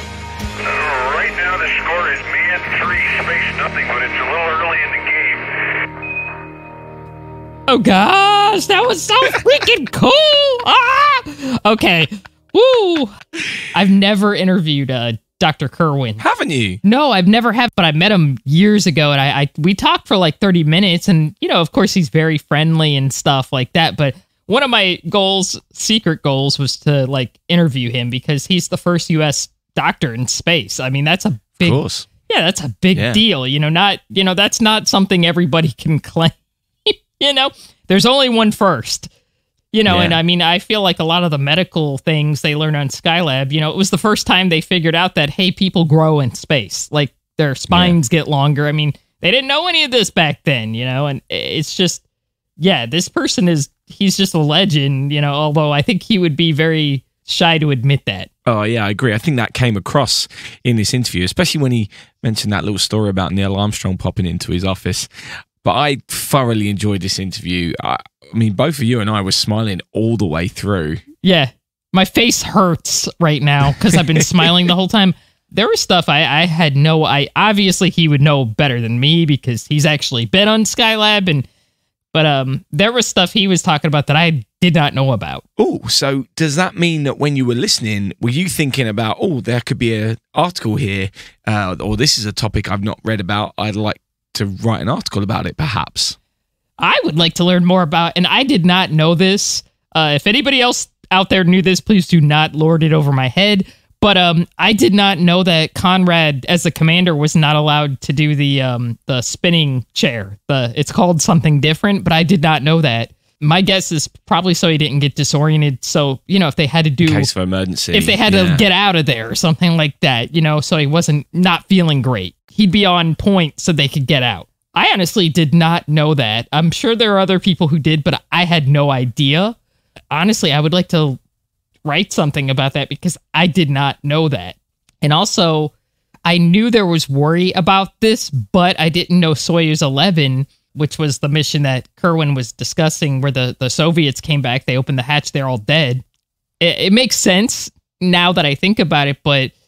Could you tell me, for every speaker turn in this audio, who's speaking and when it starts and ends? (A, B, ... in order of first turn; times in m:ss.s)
0:00.6-0:05.7 A
0:07.7-0:13.1 B
0:13.7-0:16.2 B
0:16.2-0:16.8 C
0:16.8-0:36.3 B
0:31.6-0:32.1 C
0:33.0-0:33.2 C
0:36.9-0:39.1 B
0:39.7-0:52.0 B
0:39.9-0:40.2 C
0:52.6-0:58.3 B
0:58.4-1:05.1 C
1:05.6-1:11.0 C
1:11.2-1:21.4 B
1:22.1-1:25.4 B
1:25.6-1:36.2 C
1:36.8-1:57.3 B
1:57.0-1:58.6 C
1:57.9-2:09.6 B
2:10.1-2:11.2 B
2:11.9-2:15.7 B
2:16.3-2:26.0 B
2:26.6-2:29.5 B